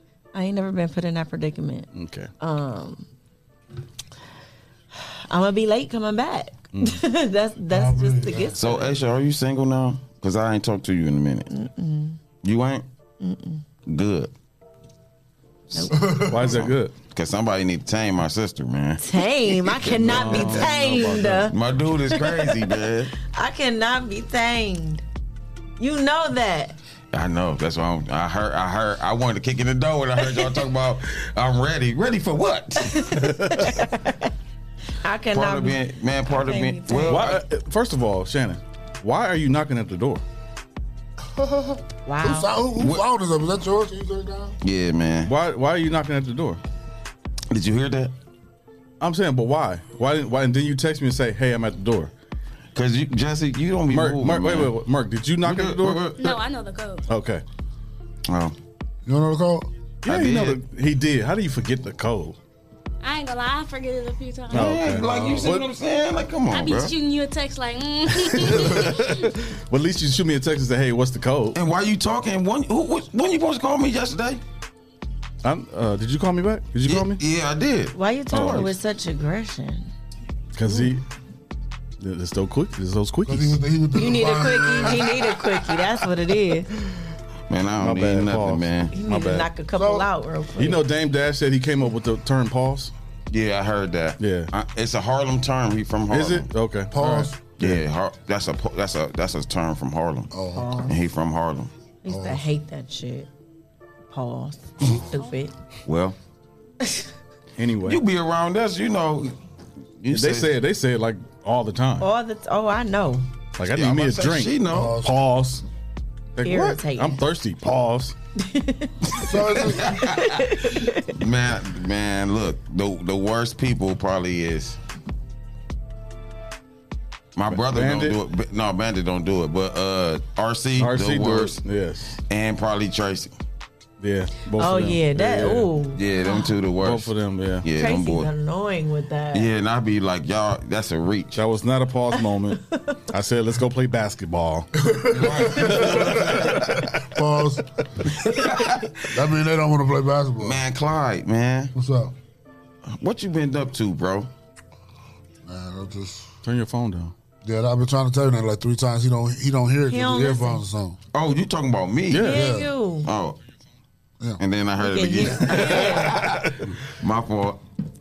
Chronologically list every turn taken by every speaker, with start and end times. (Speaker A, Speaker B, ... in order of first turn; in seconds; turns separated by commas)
Speaker A: 0.3-1.9, Speaker B: 1.9-2.3, Speaker A: 2.4-3.1, Speaker A: 5.3-8.8, Speaker B: 6.8-7.0, Speaker C: 7.7-8.6, Speaker D: 8.6-11.5, Speaker A: 11.5-12.2, Speaker D: 12.4-12.9, Speaker A: 13.2-13.6, Speaker D: 13.9-14.3, Speaker A: 15.7-16.0, Speaker C: 15.9-16.5, Speaker B: 16.3-17.0, Speaker D: 16.4-23.1, Speaker A: 19.0-21.5, Speaker B: 19.8-21.5, Speaker A: 22.1-22.5, Speaker A: 23.2-25.0, Speaker A: 25.8-26.8, Speaker D: 27.1-33.0, Speaker A: 32.9-34.2, Speaker B: 33.2-33.7, Speaker A: 35.0-37.3, Speaker D: 35.3-37.4, Speaker B: 37.1-40.2, Speaker C: 41.4-44.6, Speaker A: 42.1-42.5, Speaker D: 44.6-45.3, Speaker B: 45.2-46.6, Speaker D: 47.5-48.1, Speaker B: 49.0-52.1, Speaker D: 52.8-54.7, Speaker B: 53.9-56.1, Speaker D: 55.4-56.3, Speaker E: 56.2-57.0, Speaker B: 57.1-57.4, Speaker D: 58.3-58.5, Speaker C: 59.0-59.7, Speaker B: 60.0-62.4, Speaker D: 60.1-60.6, Speaker E: 63.0-64.7, Speaker B: 64.5-65.7, Speaker D: 64.6-66.9, Speaker C: 65.1-65.4, Speaker E: 66.5-69.1, Speaker B: 68.2-71.6, Speaker D: 71.5-74.4, Speaker B: 75.4-77.2, Speaker D: 76.8-78.7, Speaker A: 77.9-79.9, Speaker B: 78.3-78.7, Speaker B: 80.5-81.0, Speaker B: 82.0-83.6, Speaker C: 83.3-85.7, Speaker A: 84.0-86.7, Speaker D: 87.5-89.0, Speaker B: 87.8-89.5, Speaker A: 88.9-90.8, Speaker C: 89.8-90.1, Speaker B: 90.6-92.9, Speaker D: 93.3-96.5, Speaker B: 94.2-94.5, Speaker B: 96.1-97.8, Speaker C: 96.9-97.6, Speaker D: 97.6-100.3, Speaker C: 100.3-100.8, Speaker A: 100.6-100.9, Speaker D: 100.8-101.7, Speaker A: 102.0-103.3, Speaker C: 102.1-102.5, Speaker A: 104.1-105.5, Speaker D: 105.9-106.2, Speaker B: 107.6-108.0, Speaker D: 107.8-109.3, Speaker D: 110.0-110.6, Speaker B: 110.1-112.1, Speaker A: 112.0-113.3, Speaker B: 113.6-115.6, Speaker D: 113.7-115.0, Speaker C: 114.7-115.2, Speaker B: 116.4-118.2, Speaker A: 116.4-117.2, Speaker A: 118.4-121.0, Speaker C: 119.2-120.0, Speaker D: 119.6-124.8, Speaker D: 127.3-131.6, Speaker B: 127.5-128.2, Speaker B: 130.8-132.2, Speaker D: 132.3-133.3, Speaker B: 134.0-135.8, Speaker A: 134.6-136.5, Speaker D: 135.9-138.3, Speaker B: 136.8-137.7, Speaker A: 137.8-139.5, Speaker D: 139.3-141.4, Speaker B: 141.4-144.7, Speaker C: 144.9-147.6, Speaker D: 145.1-146.7, Speaker B: 145.5-146.8, Speaker D: 148.4-148.8, Speaker C: 149.1-150.6, Speaker D: 150.4-151.7, Speaker C: 151.8-152.2, Speaker D: 152.9-154.3, Speaker C: 155.4-156.3, Speaker B: 156.4-157.1, Speaker C: 157.4-161.0, Speaker A: 159.9-160.6, Speaker D: 161.1-162.3, Speaker B: 162.1-162.4, Speaker A: 162.1-163.1, Speaker C: 162.3-162.7, Speaker D: 163.0-163.4, Speaker D: 164.4-167.6, Speaker A: 164.8-166.2